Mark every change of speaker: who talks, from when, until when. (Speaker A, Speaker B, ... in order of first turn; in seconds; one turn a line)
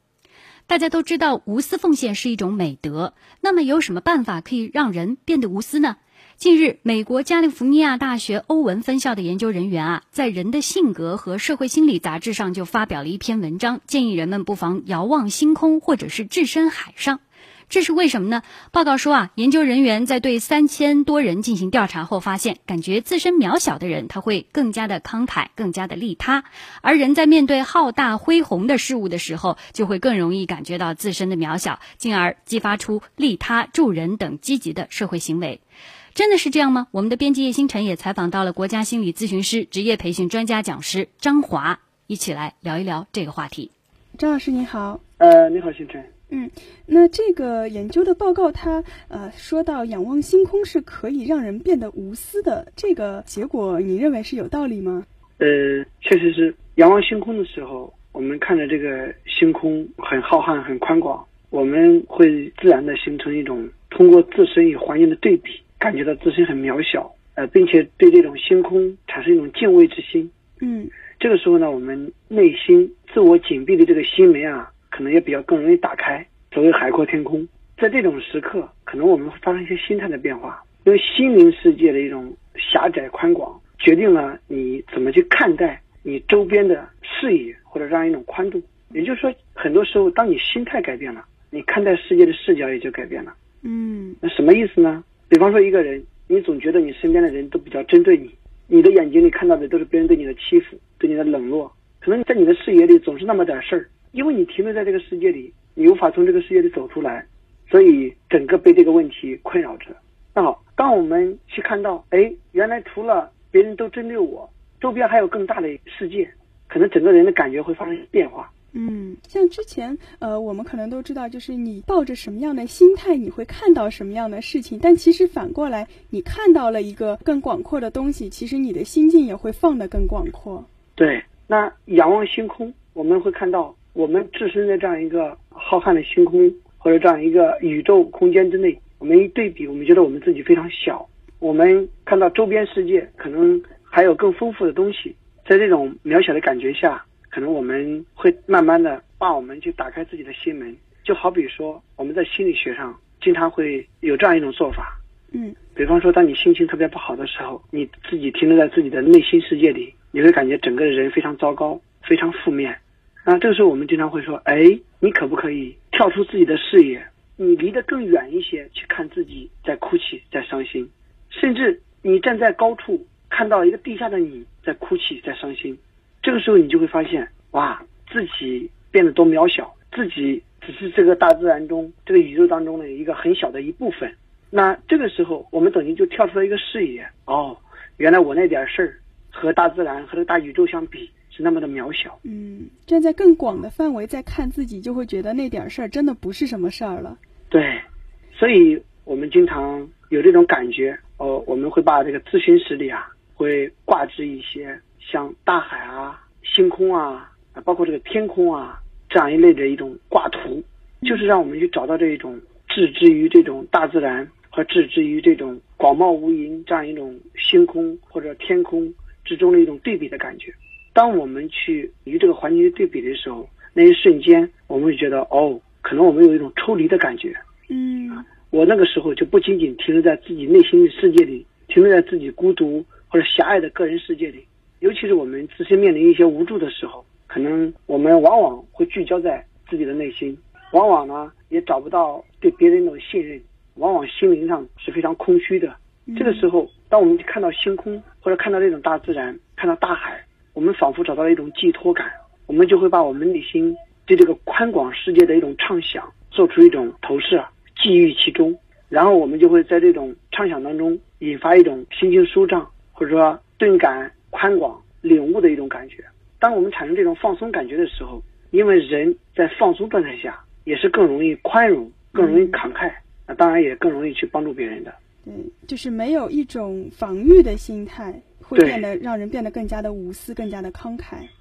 Speaker A: 0.7-35.6
Speaker A: 36.1-43.7
Speaker B: 44.2-45.0
Speaker C: 45.2-46.1
Speaker B: 46.3-55.1
Speaker C: 55.4-70.3
Speaker B: 70.6-71.0
Speaker C: 71.1-93.4
Speaker B: 93.6-94.2
Speaker C: 94.2-118.5
Speaker B: 118.7-130.7
Speaker C: 131.0-155.0
Speaker B: 155.3-155.6
Speaker C: 155.8-192.2
Speaker B: 192.2-197.2
Speaker C: 197.5-227.4
Speaker B: 227.7-228.3
Speaker C: 228.4-275.0
Speaker B: 246.1-246.5
Speaker B: 272.1-272.6
Speaker B: 275.2-281.3
Speaker C: 278.6-278.9